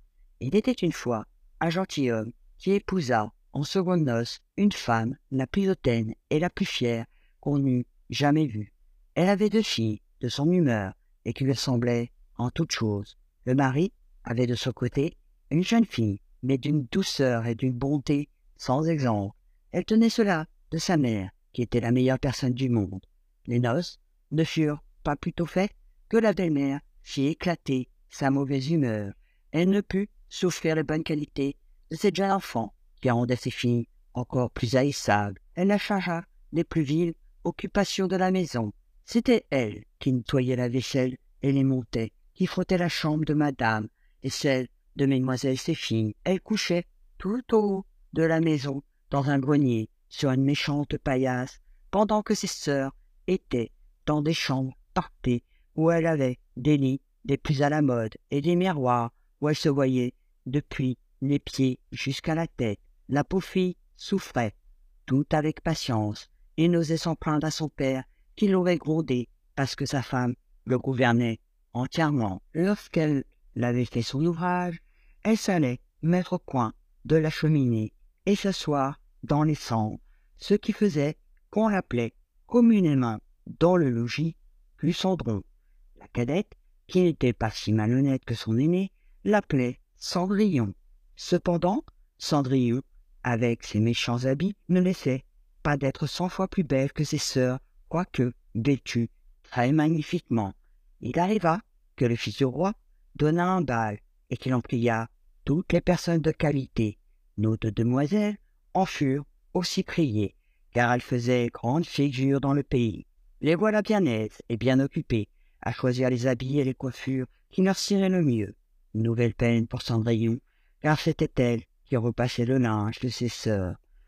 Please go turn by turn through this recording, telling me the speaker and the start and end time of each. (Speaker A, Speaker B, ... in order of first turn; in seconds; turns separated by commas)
Speaker A: 0.4-85.5, Speaker A: 86.0-123.8